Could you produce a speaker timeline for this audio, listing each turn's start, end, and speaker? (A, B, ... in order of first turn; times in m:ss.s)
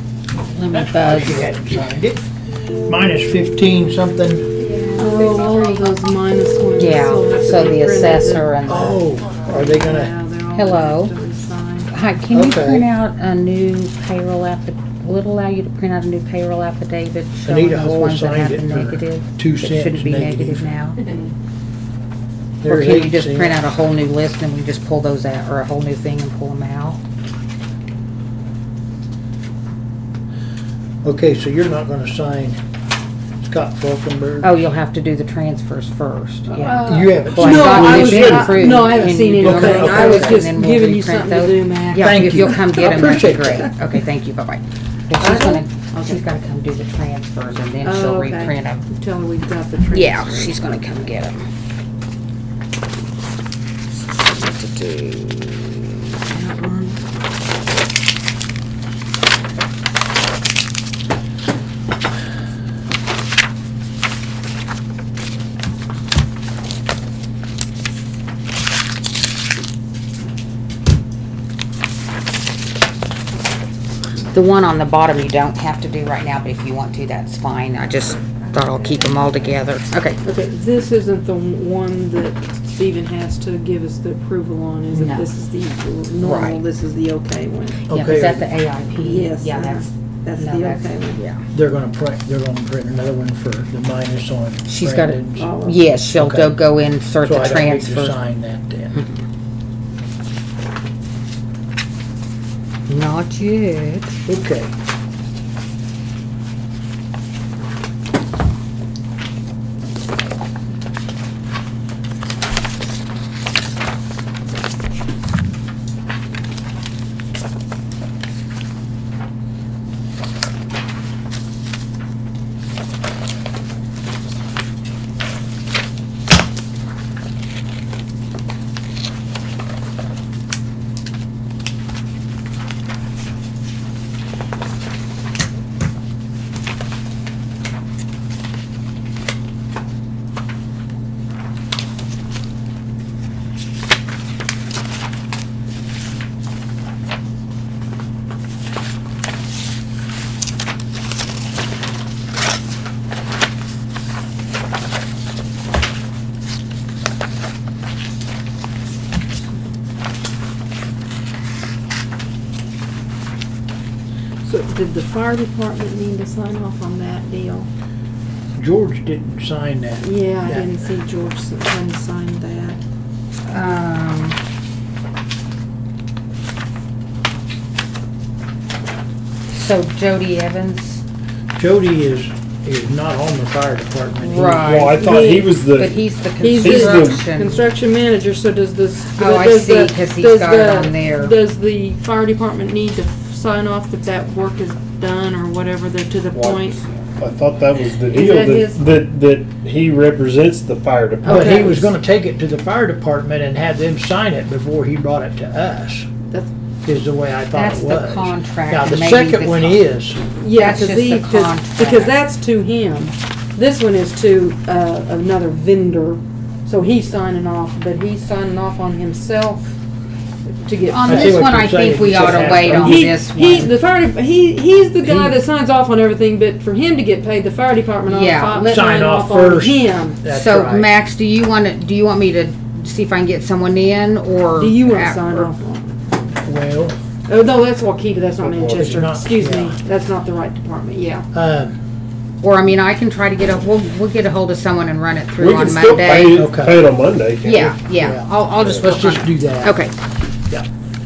0:00.5-0:01.4 A
0:00.7-0:02.2 B
0:02.8-0:04.5 B
0:04.6-0:05.8 A
0:05.0-0:08.5 C
0:06.8-0:09.0 A
0:08.6-0:10.1 B
0:09.5-0:11.9 C
0:10.5-0:11.1 A
0:11.9-0:21.0 A
0:12.3-0:12.9 B
0:17.5-0:20.7 B
0:22.6-0:23.6 B
0:22.6-0:27.0 A
0:31.0-0:32.6 B
0:33.4-0:34.5 B
0:34.4-0:48.8 A
0:36.5-0:43.0 C
0:36.8-0:40.4 B
0:37.6-0:38.6 D
0:42.0-0:43.7 B
0:45.2-0:46.2 C
0:47.8-0:50.7 C
0:49.9-0:51.5 A
0:53.9-0:57.0 A
1:14.3-1:20.2 A
1:20.2-1:27.8 C
1:24.9-1:25.2 A
1:26.2-1:26.6 A
1:27.9-1:28.5 B
1:27.9-1:31.4 A
1:29.0-1:31.2 C
1:31.5-1:35.5 B
1:34.6-1:38.2 A
1:35.4-1:35.8 C
1:36.1-1:36.6 B
1:37.2-1:39.0 B
1:38.9-1:39.2 A
1:42.9-1:44.2 A
1:44.2-1:44.7 B
2:44.4-2:47.7 C
2:48.6-2:50.6 B
2:50.0-2:52.8 C
2:53.5-2:54.4 A
2:59.5-3:01.0 A
3:01.6-3:04.6 B
3:04.2-3:07.6 A
3:04.5-3:06.0 D
3:05.0-3:05.5 C
3:06.4-3:16.8 C
3:06.6-3:07.2 D
3:09.2-3:11.3 A
3:16.3-3:21.5 D
3:18.1-3:18.8 C
3:21.2-3:21.9 C
3:21.2-3:26.1 B
3:26.8-3:30.2 B
3:27.5-3:29.8 A
3:30.4-3:39.8 C
3:30.5-3:32.1 A
3:40.6-3:41.4 C
3:40.9-3:43.7 A
3:41.1-3:43.1 B
3:42.2-3:50.2 C
3:45.0-3:45.4 B
3:48.1-3:48.8 A
3:48.7-3:50.9 B
3:50.3-3:55.5 A
3:54.6-3:56.0 C
3:56.4-3:57.0 B
3:57.3-4:01.2 C
3:58.4-3:58.9 D
3:58.8-3:59.8 B
4:01.3-4:01.8 B
4:02.4-4:06.5 A
4:05.4-4:07.8 D
4:06.3-4:06.8 B
4:07.4-4:09.9 A
4:08.0-4:09.8 B